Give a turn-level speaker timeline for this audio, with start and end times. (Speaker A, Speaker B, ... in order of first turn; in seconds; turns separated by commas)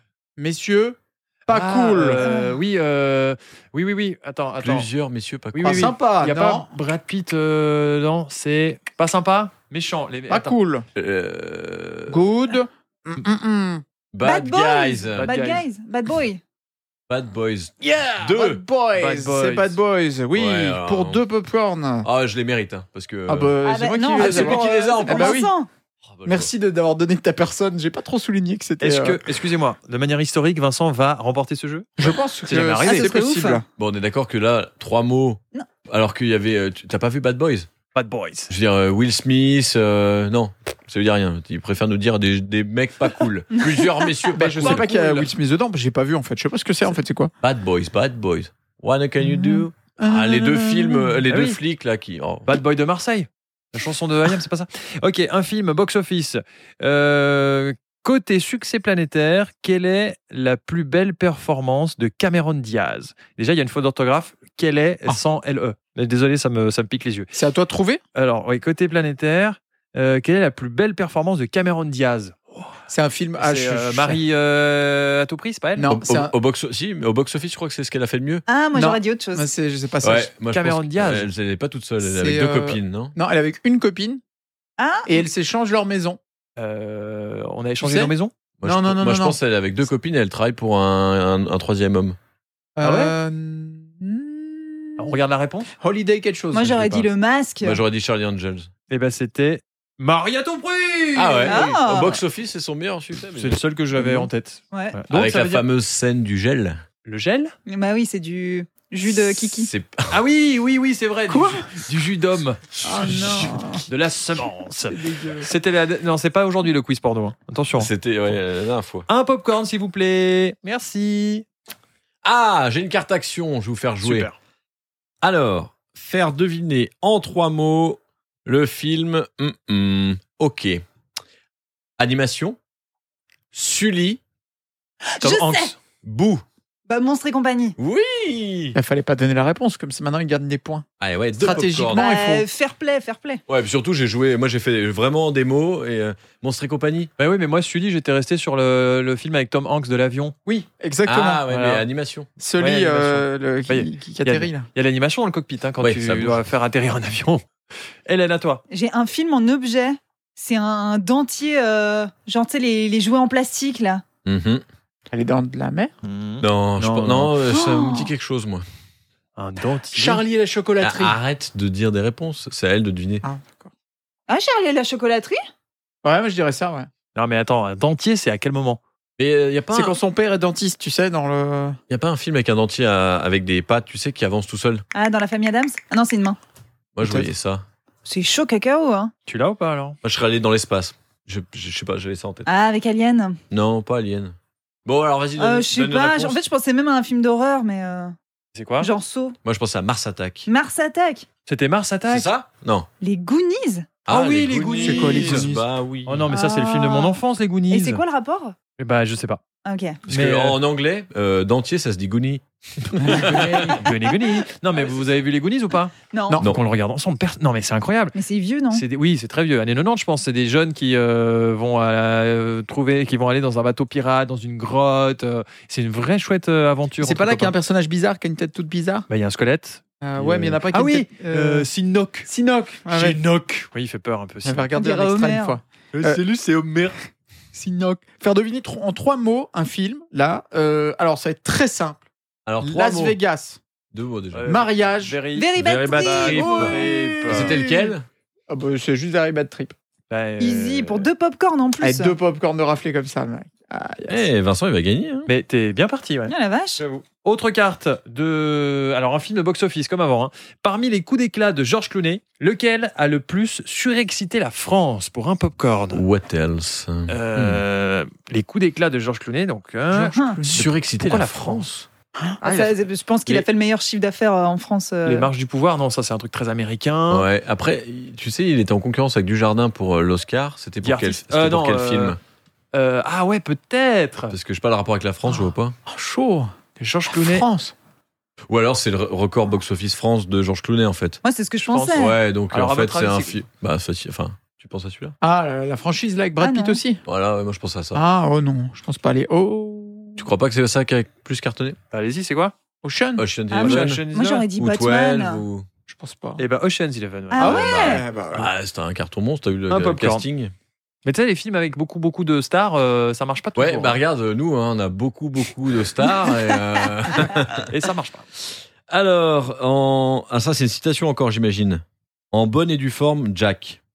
Speaker A: 0.4-2.2, Speaker B: 1.5-4.9, Speaker C: 2.2-2.6, Speaker D: 4.6-5.9, Speaker B: 5.5-10.6, Speaker A: 5.6-6.8, Speaker A: 10.3-10.8, Speaker D: 10.9-12.2, Speaker A: 12.1-13.8, Speaker D: 14.1-15.3, Speaker C: 14.2-16.4, Speaker B: 15.2-15.7, Speaker D: 17.1-18.6, Speaker A: 17.8-22.1, Speaker B: 18.9-19.8, Speaker D: 20.3-21.2, Speaker D: 22.0-23.5, Speaker A: 23.3-25.5, Speaker C: 23.6-25.7, Speaker D: 24.1-25.4, Speaker D: 26.1-26.5, Speaker A: 26.2-29.2, Speaker B: 28.8-33.2, Speaker A: 32.0-33.6, Speaker C: 32.9-33.6, Speaker D: 33.8-37.7, Speaker B: 37.9-38.5, Speaker D: 38.5-45.2, Speaker C: 43.6-43.9, Speaker A: 44.3-47.3, Speaker B: 44.6-45.3, Speaker D: 47.4-52.5, Speaker A: 49.2-51.2, Speaker B: 51.3-51.6, Speaker B: 52.5-67.3, Speaker A: 67.3-68.0, Speaker B: 68.1-72.7, Speaker A: 72.9-74.2, Speaker B: 73.4-75.9, Speaker A: 75.8-76.3, Speaker D: 75.9-78.4, Speaker C: 78.5-79.5, Speaker A: 78.7-80.3, Speaker D: 80.0-83.1, Speaker B: 80.5-81.3, Speaker A: 82.0-84.2, Speaker C: 84.8-85.2, Speaker A: 85.0-86.2, Speaker B: 86.6-88.3, Speaker A: 87.8-88.1, Speaker D: 88.6-92.2, Speaker A: 88.6-89.4, Speaker A: 92.8-95.2, Speaker B: 92.8-93.1, Speaker B: 95.0-95.7, Speaker A: 95.8-97.1, Speaker C: 96.5-97.8, Speaker D: 97.6-98.7, Speaker B: 98.9-101.7, Speaker D: 101.1-103.6, Speaker C: 101.5-102.2, Speaker B: 103.3-105.6, Speaker A: 103.9-104.3, Speaker D: 105.1-106.8, Speaker B: 107.0-107.5, Speaker C: 107.7-109.7, Speaker D: 109.0-110.2, Speaker B: 110.1-117.9, Speaker A: 111.3-111.6, Speaker A: 112.8-113.8, Speaker A: 114.9-115.5, Speaker D: 117.8-119.1, Speaker B: 119.1-121.5, Speaker D: 122.2-124.3, Speaker B: 124.0-124.3, Speaker D: 125.2-130.8, Speaker D: 132.0-132.6, Speaker D: 133.5-134.2, Speaker C: 135.2-135.7, Speaker B: 135.2-135.8, Speaker D: 136.0-136.4, Speaker C: 136.9-137.8, Speaker D: 137.8-138.8, Speaker A: 138.8-142.5, Speaker D: 141.0-142.0, Speaker C: 141.9-143.4, Speaker D: 143.5-147.1, Speaker B: 147.2-150.4, Speaker A: 150.5-151.4, Speaker D: 151.1-152.3, Speaker B: 151.5-151.8, Speaker A: 152.4-154.7, Speaker B: 152.6-157.4, Speaker D: 155.8-156.4, Speaker B: 158.1-158.6, Speaker C: 158.7-164.0, Speaker D: 164.2-164.6, Speaker A: 165.1-165.9, Speaker B: 166.0-167.3, Speaker D: 166.4-168.6, Speaker C: 167.5-168.1, Speaker B: 169.4-170.2, Speaker A: 169.9-171.2, Speaker D: 170.8-173.2, Speaker A: 173.2-173.7, Speaker C: 174.3-175.4, Speaker A: 176.0-176.9, Speaker B: 177.1-178.8, Speaker D: 179.2-180.0, Speaker A: 179.7-181.8, Speaker D: 181.9-184.8, Speaker C: 184.9-186.4, Speaker D: 186.9-187.6, Speaker A: 187.0-187.3, Speaker C: 188.0-189.1, Speaker B: 189.3-190.0, Speaker D: 190.0-192.5, Speaker C: 192.4-193.4, Speaker D: 193.5-196.4, Speaker C: 195.4-198.1, Speaker B: 198.5-198.9, Speaker C: 198.8-199.4, Speaker D: 199.4-200.5, Speaker C: 200.5-201.2, Speaker B: 201.4-202.3, Speaker D: 202.1-202.9, Speaker C: 203.0-203.9, Speaker D: 204.1-206.3, Speaker B: 204.1-205.5, Speaker A: 204.8-205.6, Speaker B: 206.1-208.0, Speaker C: 206.3-207.2, Speaker C: 207.7-208.6, Speaker B: 208.8-209.4, Speaker C: 209.6-210.0, Speaker B: 210.1-210.6, Speaker D: 210.1-213.8, Speaker A: 213.0-213.8, Speaker B: 213.1-218.2, Speaker C: 216.1-216.4, Speaker C: 218.1-218.8, Speaker B: 218.7-227.5, Speaker A: 227.0-229.1, Speaker B: 229.1-232.3, Speaker A: 230.0-231.7, Speaker A: 232.2-233.2, Speaker B: 232.9-234.7, Speaker A: 234.4-236.2, Speaker C: 234.7-235.6, Speaker B: 235.9-237.0, Speaker A: 237.5-242.0, Speaker D: 242.4-243.2, Speaker A: 242.6-243.6, Speaker D: 243.9-244.5, Speaker B: 244.3-247.6, Speaker A: 244.4-245.2, Speaker C: 245.3-246.8, Speaker D: 245.6-248.0, Speaker A: 246.4-247.9, Speaker A: 248.5-249.7, Speaker B: 250.1-251.1, Speaker C: 250.4-252.1, Speaker A: 251.8-254.2, Speaker D: 254.1-255.3, Speaker B: 255.3-266.0, Speaker C: 256.3-256.8, Speaker D: 265.9-267.6, Speaker B: 267.1-271.6, Speaker A: 269.9-270.7, Speaker D: 270.5-271.9, Speaker B: 272.4-272.7, Speaker C: 272.4-275.3, Speaker B: 275.0-277.3, Speaker D: 277.1-282.2, Speaker B: 280.8-282.1, Speaker B: 282.7-284.3, Speaker D: 284.3-285.8, Speaker A: 285.3-287.7, Speaker B: 286.8-287.4, Speaker D: 288.5-291.2, Speaker C: 291.2-292.1, Speaker B: 291.7-293.3, Speaker D: 291.9-295.1, Speaker A: 295.2-297.0, Speaker C: 296.4-296.8, Speaker D: 297.0-298.0, Speaker A: 297.9-300.3, Speaker D: 300.2-301.8, Speaker B: 301.9-302.5, Speaker A: 302.8-303.2, Speaker D: 303.2-304.0, Speaker C: 303.5-305.4, Speaker B: 303.5-304.5, Speaker D: 304.6-305.7, Speaker A: 305.9-306.4, Speaker B: 306.4-307.6, Speaker C: 307.3-308.0, Speaker A: 307.4-308.5, Speaker D: 307.4-310.5, Speaker B: 309.7-310.2, Speaker B: 311.0-314.0, Speaker D: 313.6-317.7, Speaker B: 317.7-318.2, Speaker D: 318.9-323.8